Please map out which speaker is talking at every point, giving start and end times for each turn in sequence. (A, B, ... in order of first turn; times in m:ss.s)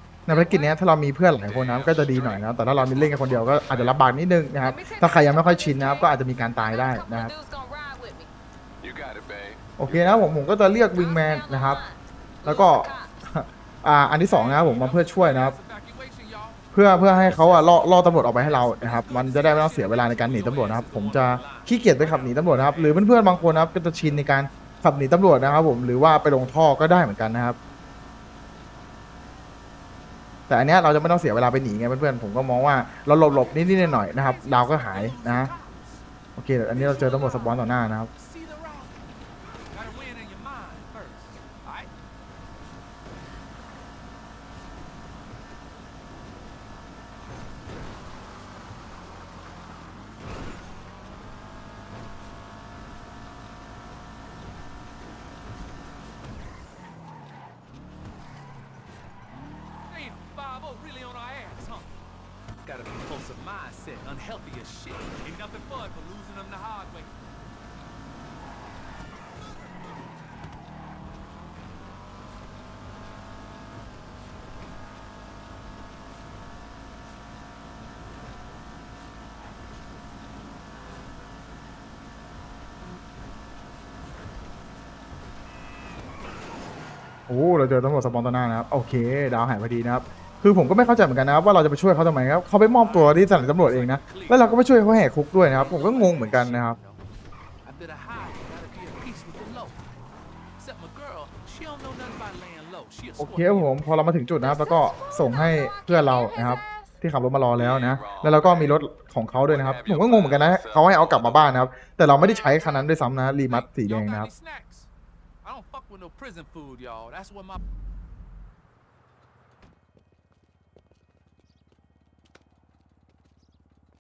0:00.3-0:07.3 A
0:00.3-0:00.8 B
0:01.4-0:04.0 C
0:04.6-0:08.3 B
0:08.8-0:10.3 C
0:09.8-0:11.8 A
0:10.9-0:13.2 B
0:12.4-0:15.6 A
0:14.2-0:23.8 D
0:16.7-0:27.6 A
0:30.5-0:35.5 A
0:33.2-0:36.0 D
0:36.4-0:38.1 A
0:36.7-0:38.9 D
0:39.7-0:41.9 D
0:59.9-1:01.9 D
1:02.6-1:07.1 D
1:27.3-1:36.8 A
1:32.8-1:34.5 D
1:35.4-1:37.0 D
1:37.6-1:39.8 D
1:40.6-1:43.7 D
1:43.2-1:54.3 A
1:44.4-1:47.0 B
1:47.5-1:48.8 C
1:49.4-1:51.5 C
1:53.4-1:54.9 D
1:55.4-1:57.6 D